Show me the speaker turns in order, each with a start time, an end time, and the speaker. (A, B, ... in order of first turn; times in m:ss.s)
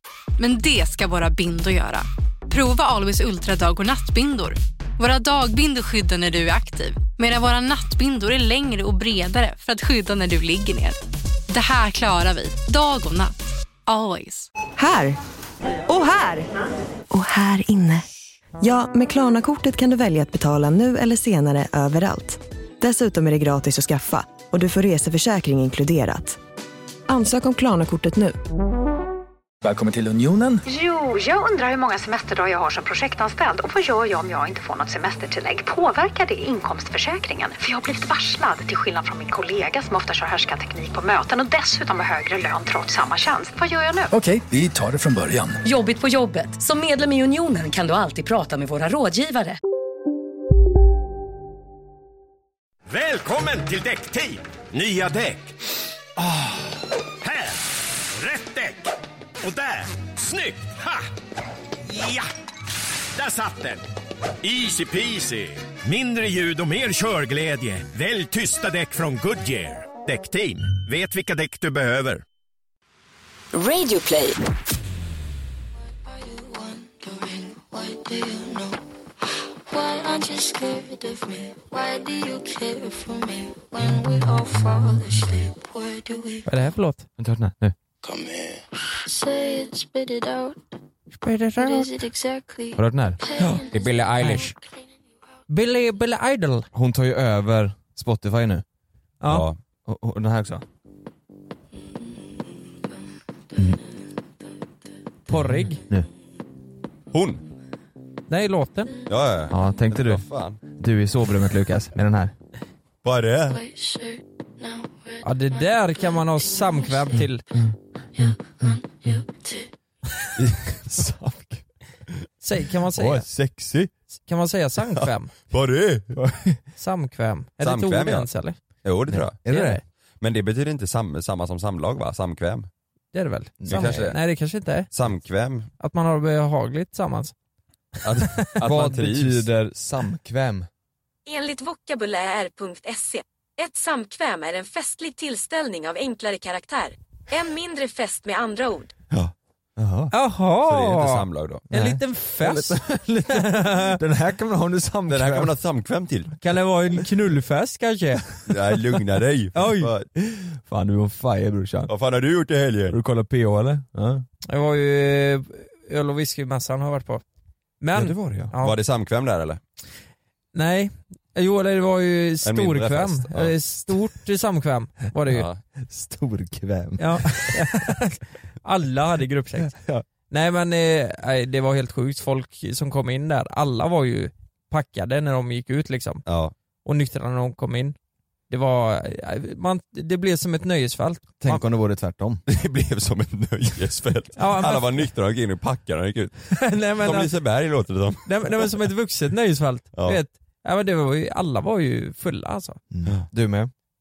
0:00.4-0:14.5 A
0:14.8-0:15.2 B
0:15.8-0:16.5 B
0:17.1-0:18.0 B
0:18.6-0:26.4 B
0:27.1-0:28.4 B
0:29.6-0:30.6 C
0:30.6-0:44.1 D
0:44.1-0:45.6 C
0:45.6-0:49.6 E
0:52.9-0:55.5 F
0:56.2-0:56.6 F
0:57.2-0:58.9 F
0:59.4-1:01.0 F
1:01.9-1:02.3 F
1:03.2-1:03.8 F
1:04.4-1:12.2 F
1:13.5-1:14.4 B
1:17.1-1:18.6 A
1:17.7-1:18.5 G
1:19.7-1:26.3 G
1:19.7-1:22.1 A
1:23.5-1:26.4 A
1:26.4-1:27.1 H
1:27.2-1:27.7 I
1:29.1-1:30.6 G
1:29.1-1:30.5 A
1:31.2-1:32.0 H
1:31.6-1:32.5 A
1:31.7-1:32.8 G
1:32.7-1:33.3 I
1:33.4-1:34.5 H
1:34.2-1:34.5 I
1:35.5-1:36.7 H
1:36.7-1:38.6 I
1:39.2-1:39.4 H
1:39.3-1:39.6 J
1:39.8-1:40.6 I
1:45.3-1:45.8 H
1:45.3-1:46.1 I
1:47.1-1:47.4 J
1:48.3-1:49.0 H
1:49.1-1:50.6 J
1:49.5-1:52.3 I
1:53.0-1:53.6 J
1:53.7-1:54.0 G
1:55.2-1:57.4 H
2:00.5-2:01.6 I
2:02.4-2:03.2 H
2:02.9-2:03.9 I
2:04.3-2:05.3 H
2:05.5-2:06.2 J
2:06.1-2:06.6 I
2:06.8-2:08.6 H
2:07.6-2:08.3 J
2:08.8-2:09.4 J
2:09.1-2:09.8 I
2:09.5-2:09.8 H
2:10.2-2:12.7 J
2:13.1-2:14.9 H
2:13.6-2:14.1 I
2:13.7-2:14.2 J
2:14.9-2:15.7 J
2:15.8-2:17.3 H
2:18.0-2:19.5 J
2:18.6-2:20.7 I
2:21.2-2:28.9 E
2:29.8-2:30.1 I
2:30.1-2:34.0 H
2:30.6-2:31.6 J
2:31.7-2:35.5 I
2:35.1-2:36.3 J
2:36.4-2:38.3 H
2:38.5-2:40.1 J
2:39.5-2:39.9 H
2:40.2-2:41.9 I
2:41.9-2:43.0 J
2:42.9-2:44.2 I
2:44.4-2:47.2 H
2:47.8-2:48.8 H
2:48.0-2:48.5 I
2:48.6-2:49.6 J
2:50.5-2:55.4 H
2:52.4-2:53.5 J
2:55.3-2:55.6 J
2:55.8-2:57.8 I
2:57.0-2:59.8 H
2:59.6-3:00.0 I
3:00.3-3:06.2 H
3:06.2-3:06.5 J
3:06.8-3:07.9 H
3:08.5-3:11.6 H
3:11.4-3:12.4 I
3:12.5-3:18.9 J
3:14.4-3:15.0 H
3:16.6-3:17.3 H
3:18.2-3:22.8 H
3:19.9-3:20.2 J
3:22.9-3:23.7 I